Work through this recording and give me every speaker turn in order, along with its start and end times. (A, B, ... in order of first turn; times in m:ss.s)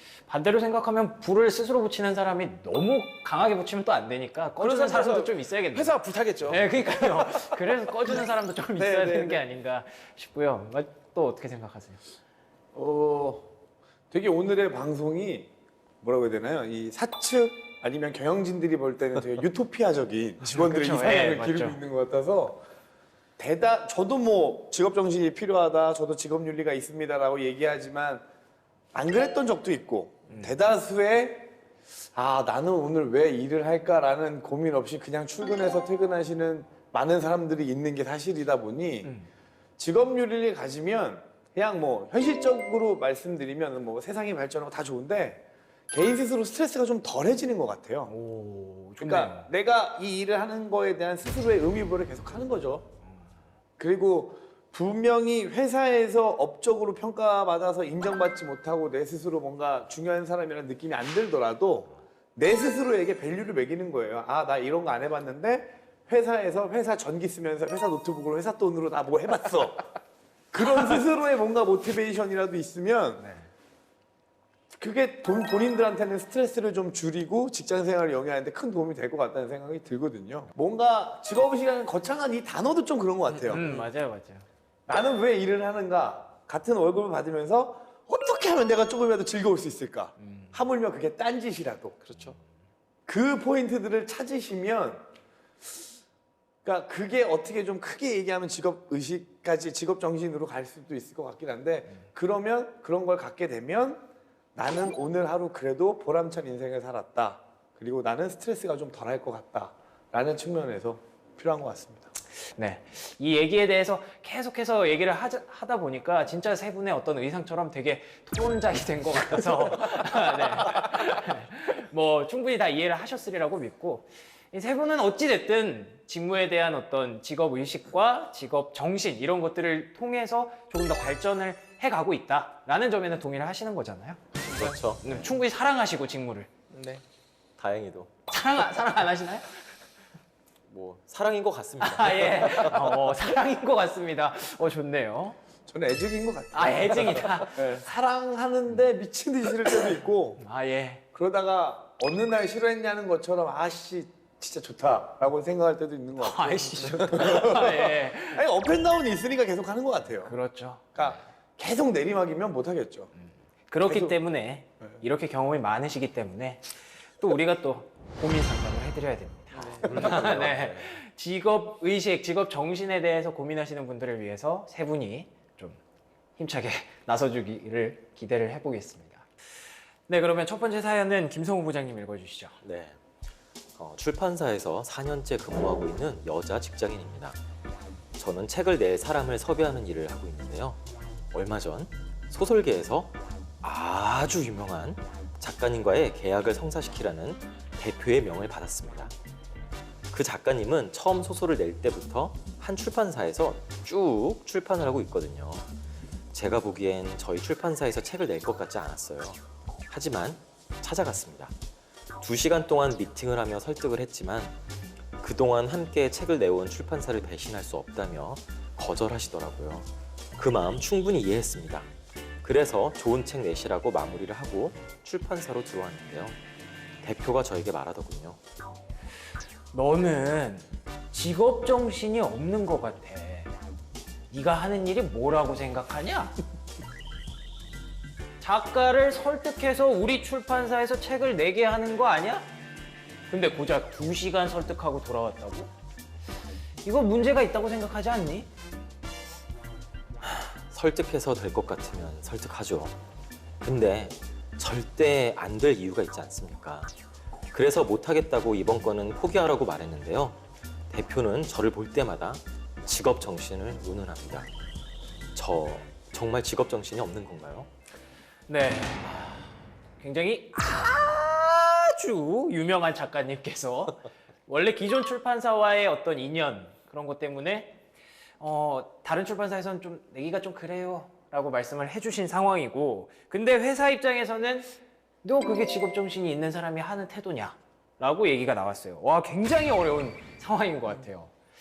0:00.3-0:05.9 A
0:04.6-0:07.6 B
0:06.5-0:12.0 A
0:08.8-0:09.4 C
0:12.7-0:13.5 C
0:14.1-0:15.5 C
0:16.0-0:22.6 C
0:20.4-0:21.8 A
0:23.4-0:28.2 C
0:28.9-0:31.5 C
0:32.1-0:39.1 C
0:39.0-0:39.3 A
0:39.8-0:48.1 C
0:48.1-0:49.5 A
0:49.0-0:52.9 C
0:53.8-1:09.9 C
1:10.5-1:13.3 C
1:13.2-1:13.4 A
1:14.8-1:23.7 C
1:23.4-1:24.4 A
1:24.9-1:32.0 C
1:30.2-1:30.5 A
1:32.0-1:32.4 B
1:33.1-1:35.0 C
1:36.6-1:44.0 C
1:44.5-1:52.1 C
1:52.6-2:14.2 A
2:14.5-2:15.1 D
2:15.0-2:16.5 A
2:16.7-2:17.0 B
2:17.6-2:18.1 D
2:18.3-2:19.6 A
2:20.7-2:23.0 D
2:21.8-2:25.4 A
2:25.7-2:30.4 C
2:26.5-2:27.8 A
2:30.4-2:31.0 A
2:31.1-2:40.3 C
2:36.2-2:38.4 A
2:40.2-2:41.1 A
2:40.9-2:43.1 C
2:43.7-2:46.7 A
2:43.8-2:44.2 C
2:47.2-2:55.8 A
2:49.6-2:50.9 D
2:56.4-2:59.2 A
3:00.1-3:02.6 A
3:02.6-3:03.0 D
3:03.8-3:07.4 D
3:08.1-3:10.8 D
3:11.3-3:19.1 D
3:20.1-3:25.6 D
3:26.3-3:31.5 D
3:32.2-3:34.5 D
3:35.2-3:41.9 D
3:42.4-3:46.4 D
3:47.0-3:48.4 D
3:49.7-3:53.5 A
3:54.3-3:56.4 A
3:58.4-4:02.5 A
4:03.3-4:05.7 A
4:06.8-4:08.5 A
4:10.2-4:13.0 D
4:13.6-4:16.9 D
4:17.5-4:24.5 D
4:25.3-4:27.7 D
4:28.5-4:29.5 A
4:30.0-4:37.8 A
4:38.4-4:51.3 A